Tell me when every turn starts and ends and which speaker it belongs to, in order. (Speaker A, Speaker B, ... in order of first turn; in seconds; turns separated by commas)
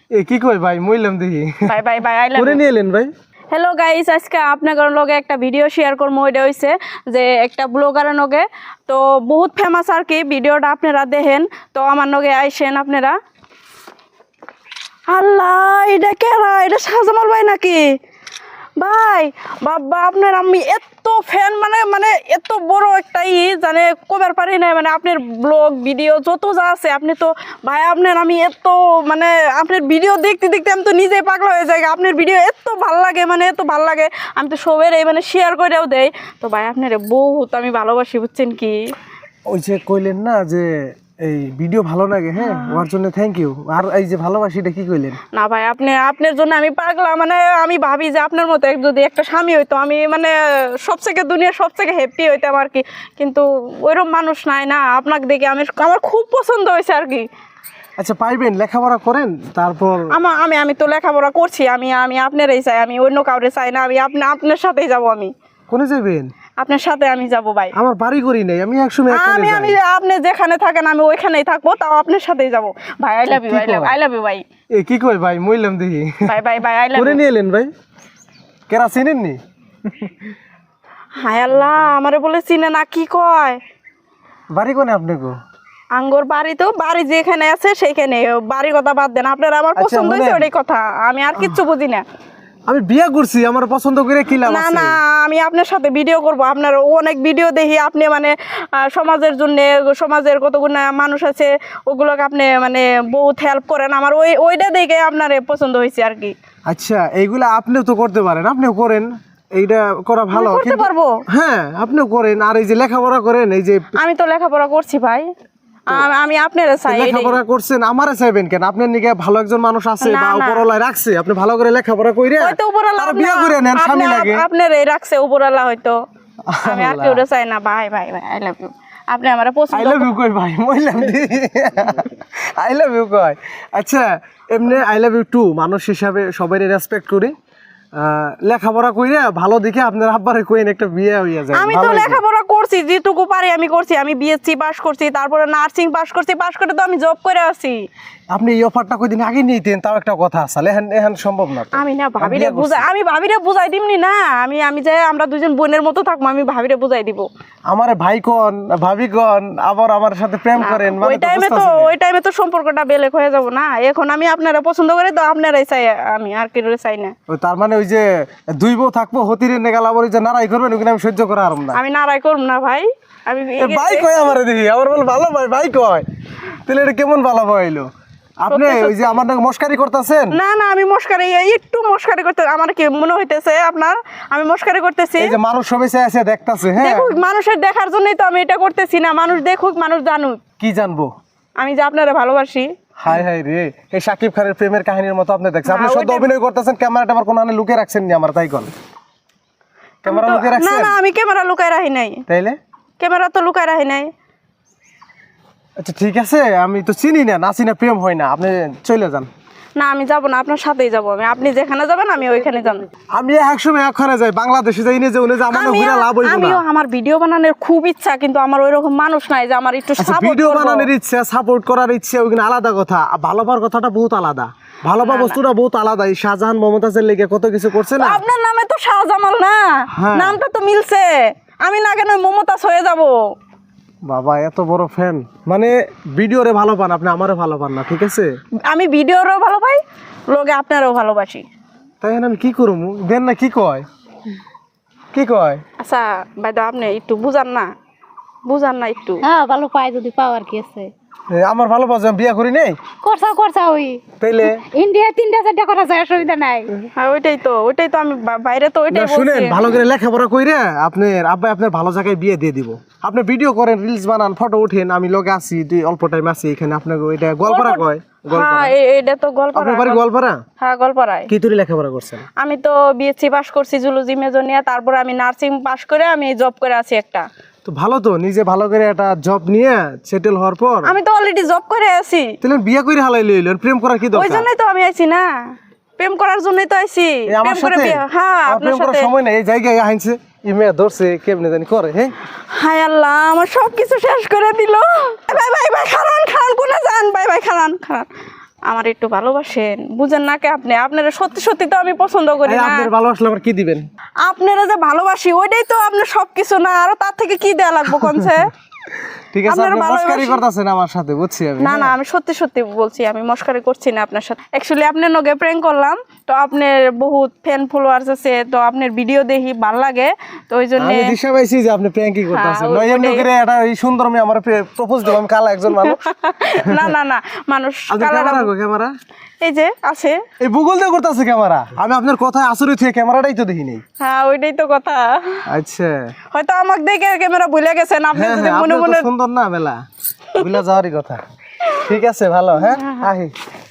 Speaker A: 0.2-1.7, Speaker B: 1.6-2.6, Speaker A: 2.4-3.1, Speaker B: 3.5-13.2, Speaker B: 15.1-18.0, Speaker B: 18.8-38.8, Speaker A: 39.5-45.2, Speaker B: 42.4-42.8, Speaker B: 45.3-57.3, Speaker A: 58.0-60.1, Speaker B: 60.1-65.3, Speaker A: 65.7-66.3, Speaker B: 66.6-67.7, Speaker A: 67.8-69.8, Speaker B: 69.1-74.4, Speaker A: 73.3-74.0, Speaker A: 74.7-76.3, Speaker B: 76.2-77.2, Speaker A: 77.0-77.7, Speaker A: 78.7-80.2, Speaker B: 81.2-83.6, Speaker A: 84.5-85.3, Speaker B: 85.9-92.0, Speaker A: 89.8-90.5, Speaker A: 92.7-95.0, Speaker B: 94.4-106.3, Speaker A: 106.7-113.9, Speaker B: 110.3-111.2, Speaker B: 114.0-115.3, Speaker B: 115.9-117.4, Speaker A: 116.9-124.5, Speaker B: 120.0-120.7, Speaker B: 122.4-126.0, Speaker A: 126.5-127.2, Speaker B: 126.6-130.1, Speaker A: 129.7-137.3, Speaker A: 138.0-142.2, Speaker B: 141.5-147.8, Speaker A: 148.3-152.8, Speaker B: 151.8-157.3, Speaker A: 157.7-161.9, Speaker B: 160.6-167.1, Speaker A: 167.3-171.8, Speaker B: 171.7-174.1, Speaker A: 173.6-176.1, Speaker A: 176.7-177.9, Speaker A: 178.4-180.4, Speaker B: 178.5-179.2, Speaker B: 180.3-185.3, Speaker A: 185.2-187.2, Speaker B: 186.7-190.4, Speaker A: 190.6-191.1, Speaker B: 191.6-192.7, Speaker A: 193.0-198.7, Speaker B: 195.7-196.3, Speaker B: 200.0-202.2, Speaker A: 200.1-201.0, Speaker A: 202.3-202.6, Speaker B: 203.0-204.1, Speaker A: 205.8-209.3, Speaker B: 209.8-212.9, Speaker A: 213.1-216.6, Speaker B: 215.5-220.9, Speaker A: 220.0-228.2, Speaker B: 225.0-225.4, Speaker B: 228.0-233.3, Speaker A: 229.9-230.4, Speaker A: 234.1-238.3, Speaker B: 238.7-241.4, Speaker A: 242.0-243.9, Speaker A: 245.1-245.6, Speaker B: 245.8-247.7, Speaker B: 248.4-249.2, Speaker C: 249.2-250.9, Speaker A: 251.3-252.8, Speaker C: 253.0-256.7, Speaker A: 254.2-254.6, Speaker B: 256.9-259.7, Speaker A: 258.9-268.8, Speaker B: 267.4-270.0, Speaker A: 269.5-270.4, Speaker B: 270.6-271.3, Speaker A: 271.3-272.3, Speaker B: 272.4-277.3, Speaker A: 277.6-280.9, Speaker B: 280.8-282.4, Speaker A: 282.4-284.5, Speaker B: 284.1-289.1, Speaker A: 287.3-292.1, Speaker B: 292.5-298.1, Speaker B: 298.7-302.9, Speaker A: 302.5-303.8, Speaker B: 304.2-308.5, Speaker A: 309.3-311.9, Speaker B: 309.4-310.4, Speaker B: 311.6-321.1, Speaker A: 320.8-326.0, Speaker B: 322.3-323.3, Speaker B: 325.7-328.5, Speaker A: 326.6-326.9, Speaker A: 327.9-328.9, Speaker B: 329.4-330.2, Speaker A: 330.4-333.8, Speaker B: 334.0-335.4, Speaker A: 335.5-336.1, Speaker B: 336.3-339.1, Speaker A: 338.1-339.8, Speaker A: 340.4-341.2, Speaker A: 341.8-343.3